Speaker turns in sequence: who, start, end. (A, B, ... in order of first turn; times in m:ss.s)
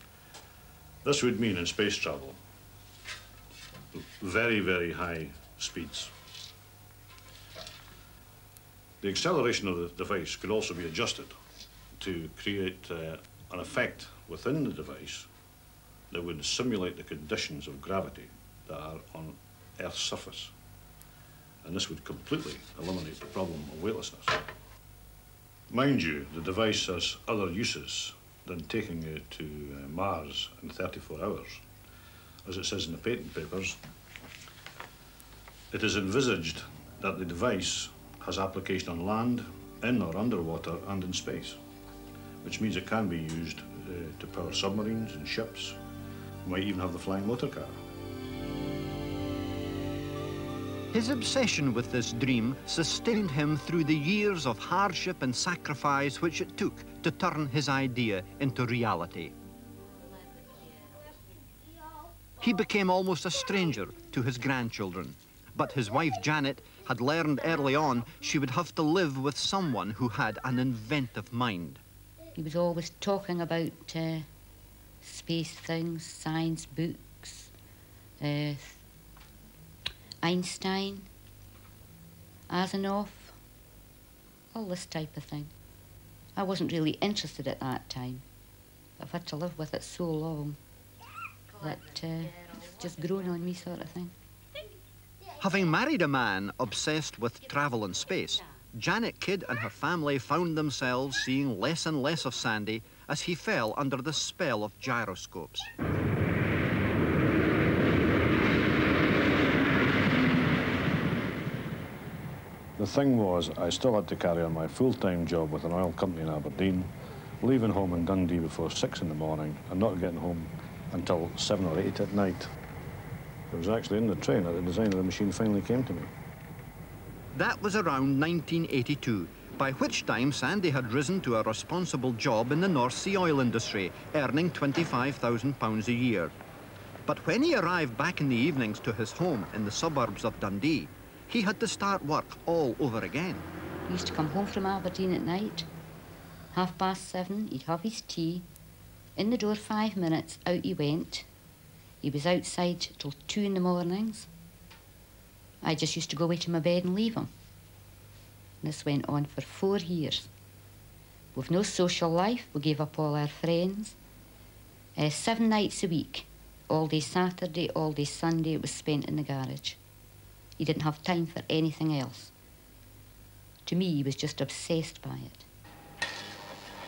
0:01.0-0:02.4 A
0:03.9-0:06.1 A
0:09.0-0:11.3 A
0:12.0-0:15.3 A
0:16.1-0:20.5 A
0:21.6-0:24.4 A
0:25.7-0:31.6 A
0:32.4-0:33.8 A
0:35.7-0:41.6 A
0:42.4-0:45.8 A
0:46.4-0:47.8 A
0:50.9-0:59.3 B
1:02.4-1:11.8 B
1:12.3-1:14.2 C
1:15.0-1:17.5 C
1:18.2-1:18.8 C
1:20.2-1:21.1 C
1:22.5-1:23.4 C
1:24.5-1:25.5 C
1:26.3-1:28.2 C
1:29.0-1:30.6 C
1:31.6-1:34.1 C
1:35.4-1:45.7 B
1:52.8-1:56.9 A
1:57.4-2:02.5 A
2:03.5-2:06.1 A
2:07.3-2:16.3 B
2:17.0-2:23.5 B
2:23.9-2:25.7 C
2:26.5-2:28.4 C
2:29.2-2:31.3 C
2:32.0-2:34.3 C
2:35.6-2:37.3 C
2:38.6-2:40.3 C
2:41.3-2:44.0 C
2:45.0-2:49.8 C
2:50.6-2:52.3 C
2:53.6-2:55.5 C